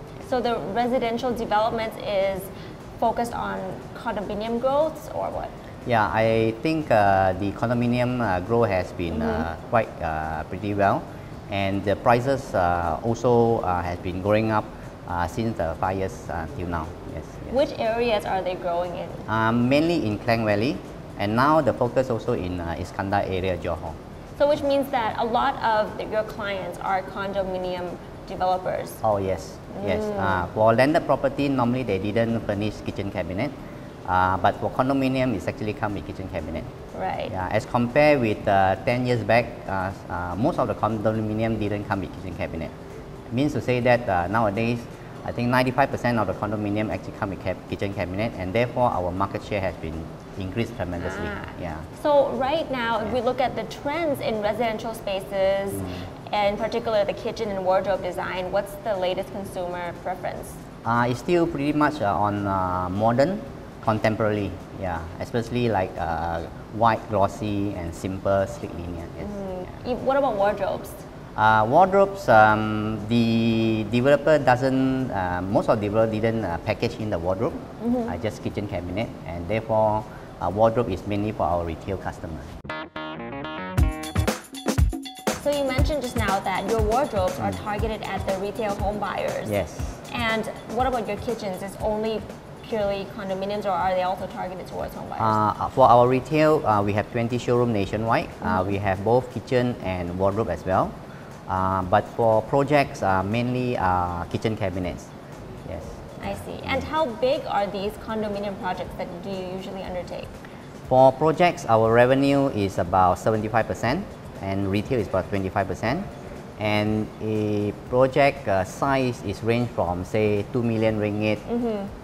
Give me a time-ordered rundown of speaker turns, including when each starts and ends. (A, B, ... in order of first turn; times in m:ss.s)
0:00.2-0:05.5 A
0:05.8-0:17.6 B
0:09.1-0:09.5 A
0:17.5-0:19.3 A
0:19.3-0:24.0 B
0:24.4-0:29.0 A
0:29.0-0:36.7 B
0:29.7-0:30.4 A
0:36.9-0:37.3 A
0:37.3-0:42.7 B
0:43.3-0:51.9 B
0:51.0-1:00.6 A
0:55.7-0:56.1 B
1:00.8-1:09.8 B
1:09.2-1:11.0 A
1:11.4-1:22.5 B
1:17.8-1:18.2 A
1:25.3-1:29.5 A
1:27.4-1:27.6 B
1:29.4-1:30.0 B
1:30.0-1:35.4 A
1:35.2-1:41.0 B
1:38.4-1:38.7 A
1:41.5-1:45.1 B
1:45.6-1:46.9 B
1:46.2-1:50.4 A
1:50.9-2:01.4 B
2:01.4-2:01.9 A